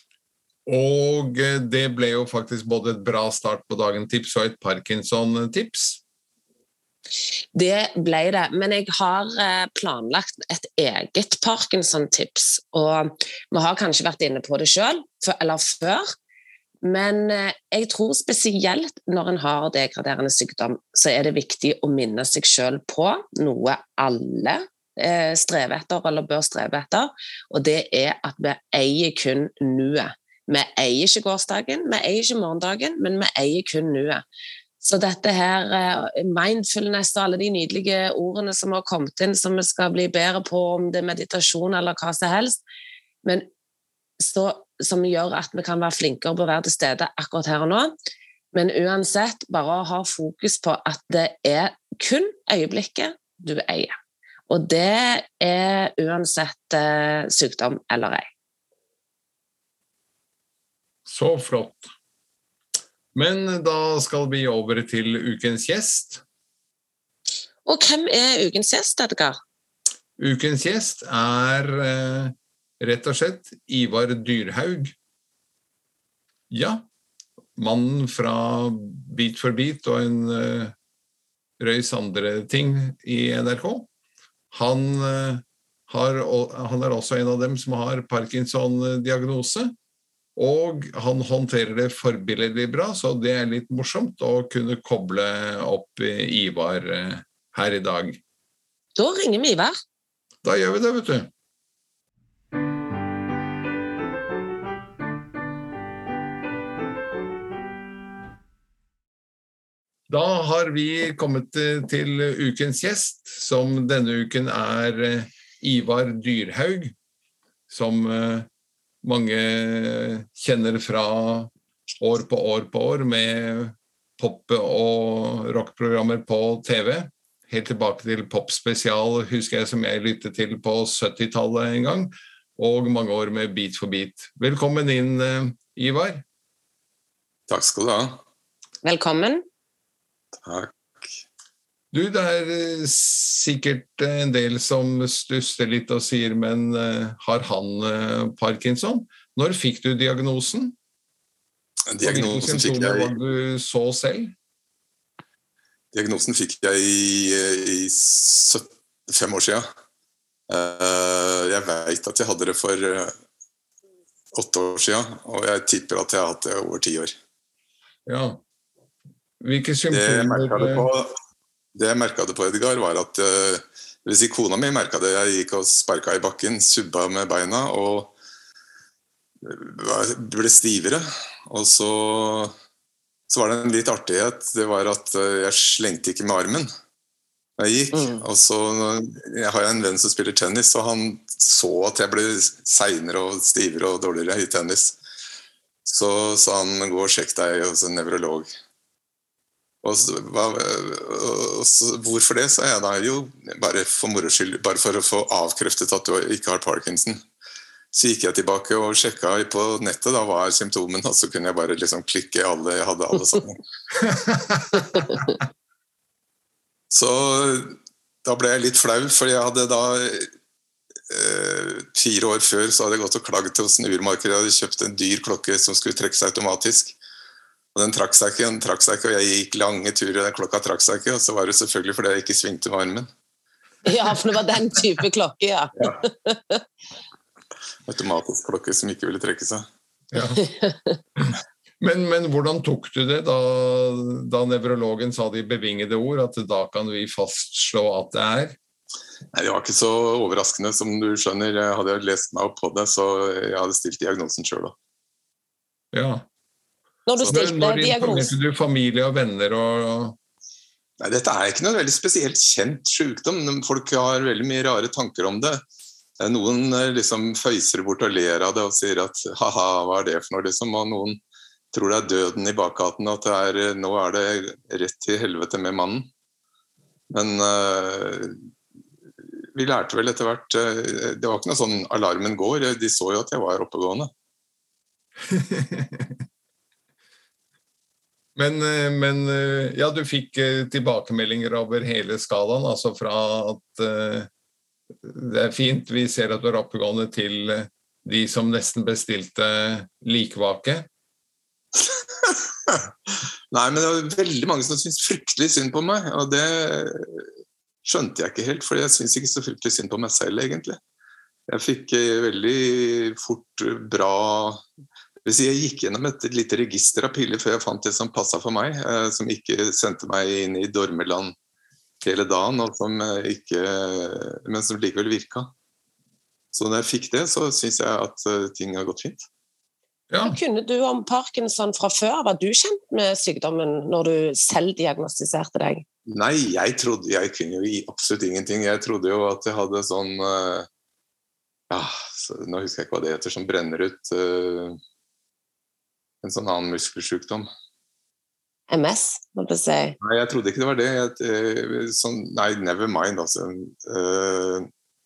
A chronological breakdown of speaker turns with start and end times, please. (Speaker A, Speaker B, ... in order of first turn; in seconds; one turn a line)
Speaker A: 0.7-6.0
Speaker B: 7.5-16.1
Speaker B: 16.8-34.2
Speaker B: 34.8-42.6
Speaker B: 44.2-47.9
Speaker B: 48.5-53.9
Speaker B: 54.5-58.2
Speaker A: 61.1-61.9
Speaker A: 63.1-66.2
Speaker B: 67.7-69.4
Speaker A: 70.2-75.0
Speaker A: 76.5-76.8
Speaker A: 77.6-80.8
Speaker A: 81.6-83.9
Speaker A: 84.5-89.7
Speaker A: 90.4-98.2
Speaker B: 99.0-99.8
Speaker A: 100.4-101.3
Speaker A: 110.1-117.0
Speaker A: 117.7-118.5
Speaker A: 119.0-136.2
Speaker C: 137.5-138.2
Speaker B: 138.8-139.4
Speaker C: 140.4-141.1
Speaker A: 141.9-150.8
Speaker C: 151.9-153.1
Speaker A: 152.0-154.3
Speaker C: 155.9-159.7
Speaker C: 160.5-163.1
Speaker C: 164.3-167.1
Speaker A: 168.1-168.4
Speaker A: 169.4-170.9
Speaker C: 169.9-171.1
Speaker C: 171.8-178.1
Speaker C: 179.4-182.5
Speaker C: 183.3-186.7
Speaker C: 187.6-195.0
Speaker B: 187.9-188.2
Speaker C: 195.9-198.5
Speaker C: 199.8-207.2
Speaker C: 207.9-213.6
Speaker A: 213.9-214.9
Speaker B: 214.9-215.3
Speaker C: 216.9-220.3
Speaker C: 221.1-227.0
Speaker C: 227.8-233.1
Speaker B: 233.8-236.6
Speaker C: 237.9-239.7
Speaker A: 240.1-240.4
Speaker B: 240.3-241.0
Speaker A: 241.2-248.6
Speaker C: 249.3-254.8
Speaker A: 255.9-256.3
Speaker B: 257.1-258.3
Speaker A: 257.2-260.2
Speaker C: 261.0-265.6
Speaker C: 266.2-271.2
Speaker C: 271.7-276.1
Speaker C: 277.1-278.4
Speaker C: 279.6-284.1
Speaker A: 285.3-286.2
Speaker A: 288.4-294.3
Speaker A: 295.0-300.9
Speaker C: 301.8-307.3
Speaker C: 307.9-310.8
Speaker C: 311.5-314.6
Speaker C: 315.2-321.3
Speaker C: 322.0-325.5
Speaker C: 326.5-329.3
Speaker A: 330.1-330.4
Speaker B: 330.2-335.9
Speaker C: 336.1-340.7
Speaker C: 341.7-344.8
Speaker C: 346.2-347.5
Speaker B: 348.7-350.0
Speaker C: 350.0-354.7